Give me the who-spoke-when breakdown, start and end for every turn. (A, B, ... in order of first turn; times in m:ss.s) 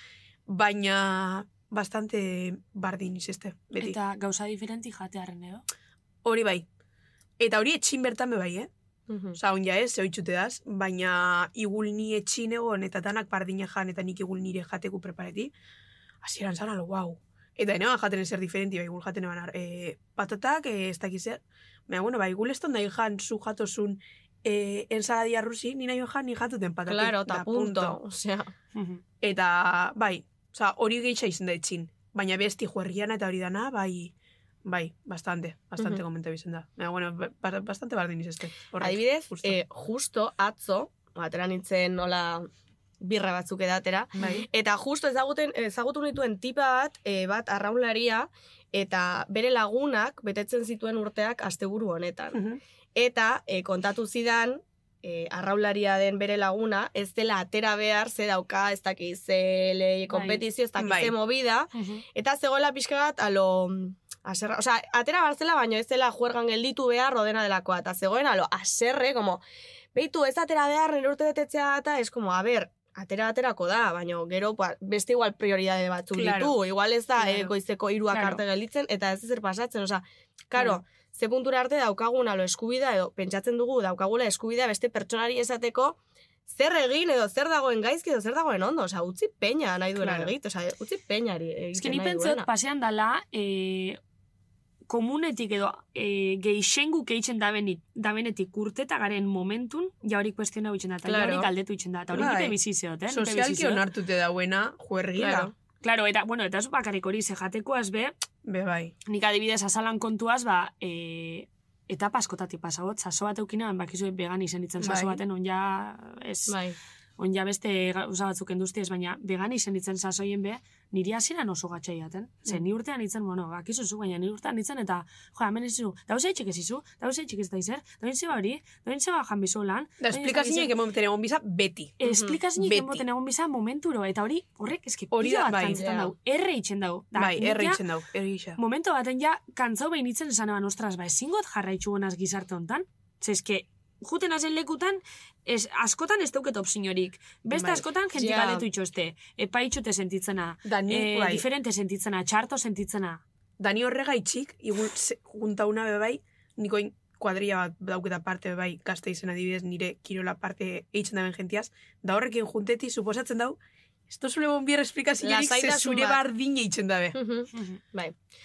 0:00.5-0:04.0 A
0:03.8-0:05.6 B
0:06.2-0:06.6 A
0:07.4-0:08.7 A
0:09.1-0:09.4 C
0:09.4-0:15.5 A
0:16.2-0:28.0 A
0:26.9-0:28.5 C
0:28.7-0:29.0 B
0:29.2-0:34.1 A
0:34.6-0:39.6 A
0:38.8-0:42.5 C
0:43.0-0:52.4 C
0:44.2-0:44.4 A
0:52.3-0:52.6 A
0:52.9-1:09.4 C
1:00.1-1:00.4 B
1:00.8-1:01.1 A
1:01.7-1:02.0 B
1:09.9-1:32.5 C
1:16.1-1:16.6 A
1:17.2-1:17.5 B
1:18.1-1:18.4 B
1:31.7-1:34.0 B
1:34.9-1:43.8 B
1:41.0-1:41.5 C
1:42.1-1:45.5 A
1:45.2-1:45.5 C
1:45.8-1:48.1 B
1:48.4-1:48.9 A
1:49.1-1:56.6 B
1:54.8-1:55.2 A
1:56.5-1:56.8 C
1:57.2-2:10.7 B
2:10.0-2:12.0 A
2:12.0-2:17.8 B
2:12.0-2:12.4 C
2:12.5-2:13.0 A
2:15.1-2:15.8 A
2:15.6-2:16.1 C
2:17.1-2:18.6 A
2:18.6-2:33.2 B
2:27.5-2:27.8 A
2:28.1-2:28.6 C
2:30.6-2:31.4 A
2:33.6-2:43.6 A
2:44.1-2:47.1 A
2:45.2-2:46.2 C
2:47.1-2:48.2 C
2:47.5-2:47.8 B